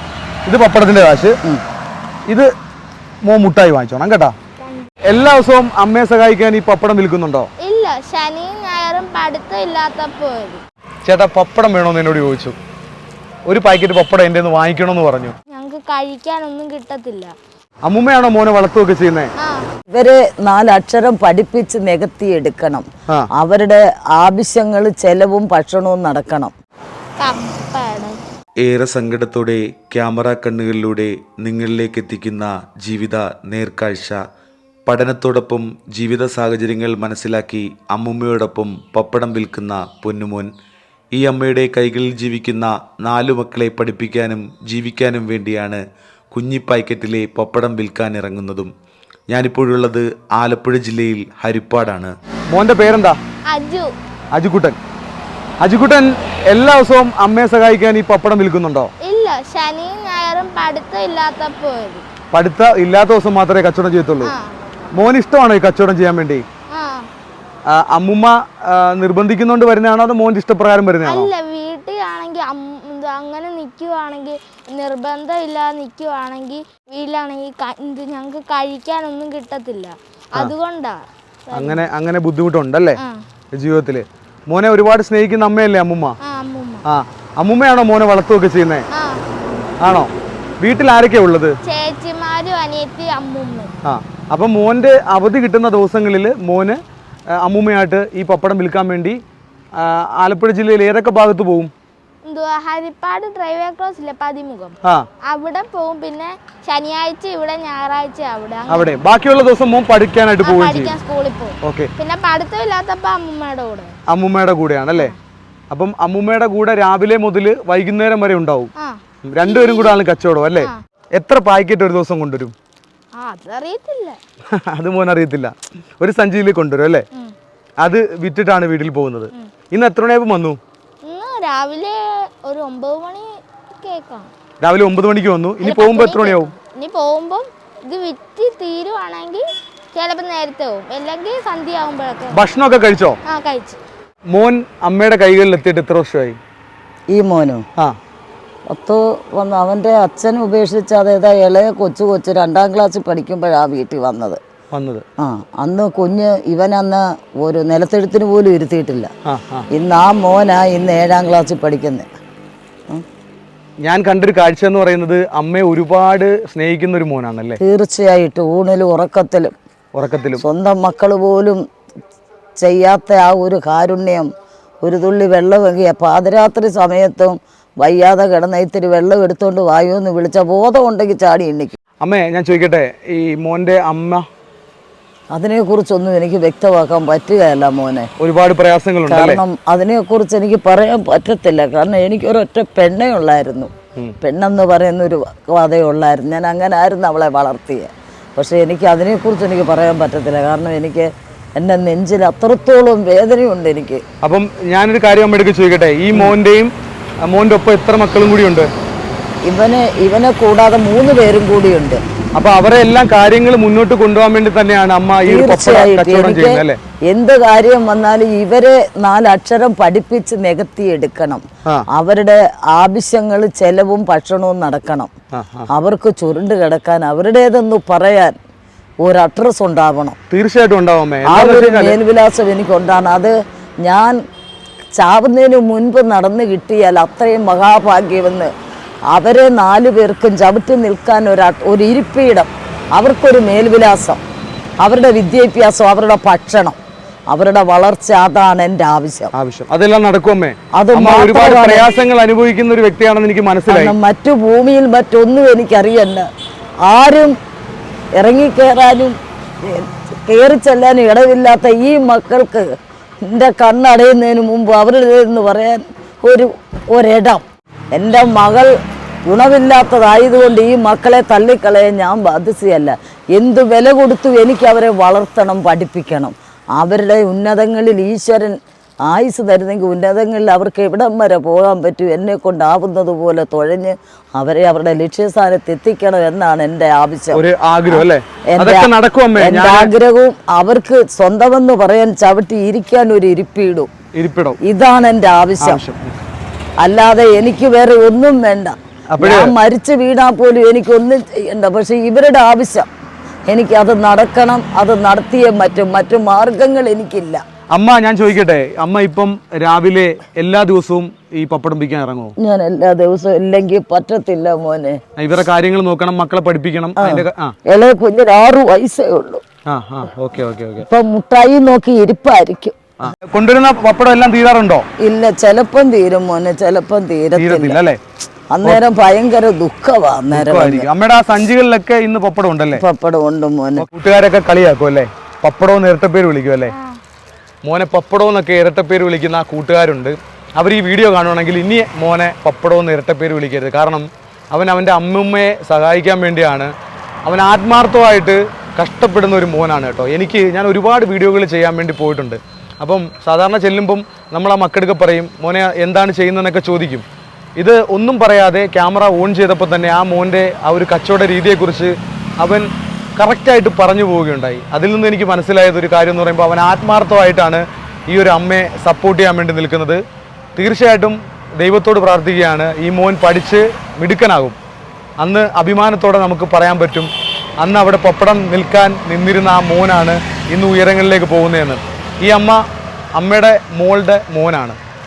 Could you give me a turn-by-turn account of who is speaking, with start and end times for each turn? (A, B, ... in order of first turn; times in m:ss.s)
0:00.4-0:01.4 A
0:03.2-0:04.3 A
0:04.6-0:04.9 B
0:05.1-0:07.5 A
0:07.6-0:10.6 B
0:11.0-0:12.5 A
0:13.5-0:15.3 A
0:15.5-0:17.3 B
0:17.8-0:19.3 A
0:19.9-0:22.8 C
0:23.4-0:26.5 C
0:27.2-0:28.2 B
0:28.6-0:34.2 D
0:34.9-0:40.5 D
0:41.1-0:45.8 D
0:46.3-0:48.7 D
0:49.3-0:52.1 D
0:52.5-0:53.2 A
0:53.5-0:53.9 B
0:54.3-0:54.8 A
0:55.6-0:58.9 A
0:59.0-1:02.0 B
1:02.3-1:04.3 A
1:04.2-1:04.5 B
1:04.9-1:06.4 A
1:06.7-1:07.1 B
1:07.7-1:11.3 A
1:11.0-1:21.9 B
1:21.5-1:23.0 A
1:23.5-1:26.2 A
1:26.2-1:26.8 B
1:26.8-1:28.8 A
1:28.9-1:29.7 B
1:29.8-1:30.1 A
1:30.6-1:31.6 A
1:31.6-1:33.7 B
1:33.8-1:36.8 A
1:37.4-1:39.2 A
1:39.8-1:41.7 A
1:42.2-1:49.0 B
1:48.7-1:50.9 A
1:50.4-1:53.9 B
1:51.6-1:51.9 A
1:54.1-1:55.1 A
1:55.7-1:58.7 A
1:58.8-2:00.0 B
1:59.3-2:02.5 A
2:03.2-2:04.2 B
2:04.5-2:07.0 A
2:07.8-2:10.6 A
2:11.0-2:14.3 B
2:14.6-2:16.5 A
2:15.6-2:19.4 B
2:19.9-2:22.4 B
2:22.3-2:23.2 A
2:23.3-2:23.8 B
2:24.3-2:26.4 A
2:27.1-2:27.6 C
2:28.7-2:34.4 C
2:34.7-2:35.0 A
2:35.2-2:39.1 C
2:39.2-2:39.7 A
2:39.7-2:42.0 C
2:43.8-2:47.6 A
2:47.6-2:49.5 C
2:49.9-2:50.4 A
2:50.4-2:51.6 C
2:52.6-2:54.3 C
2:54.8-3:01.7 C
3:02.0-3:04.2 A
3:05.3-3:08.1 C
3:08.2-3:09.4 A
3:09.1-3:24.0 C
3:24.2-3:26.7 A
3:27.3-3:28.7 A
3:29.4-3:32.0 C
3:32.4-3:36.8 A
3:35.2-3:41.4 C
3:41.9-3:45.1 C
3:45.3-3:45.7 A
3:45.7-3:48.4 C
3:49.0-3:50.2 C
3:50.3-3:51.9 A
3:51.2-3:53.3 C
3:53.8-3:54.2 C
3:55.0-3:58.5 C
3:59.1-4:04.2 C
4:04.8-4:06.8 C
4:07.3-4:09.3 C
4:09.3-4:13.9 A
4:10.7-4:11.9 C
4:13.7-4:16.3 C
4:16.9-4:17.3 C
4:18.2-4:22.6 C
4:23.2-4:28.7 C
4:29.3-4:38.5 C
4:39.1-4:53.9 C
4:47.3-4:49.9 A
4:54.1-4:54.6 A
4:54.6-4:55.8 C
4:55.6-4:56.2 A
4:56.8-5:02.9 C
4:59.1-4:59.5 A
5:03.5-5:07.4 C
5:07.7-5:12.4 A
5:12.4-5:15.0 C
5:15.2-5:17.5 A
5:17.0-5:19.4 C
5:19.7-5:20.9 A
5:20.9-5:22.8 C
5:23.0-5:24.8 A
5:25.0-5:27.8 C
5:27.4-5:28.0 A
5:28.5-5:30.9 C
5:30.3-5:32.8 A
5:32.8-5:33.9 C
5:33.8-5:36.7 A
5:36.7-5:37.0 B
5:37.6-5:46.7 A
5:47.2-5:57.0 A
5:57.6-6:10.0 A
6:10.6-6:14.6 A
6:15.2-6:22.6 A
6:23.2-6:24.8 A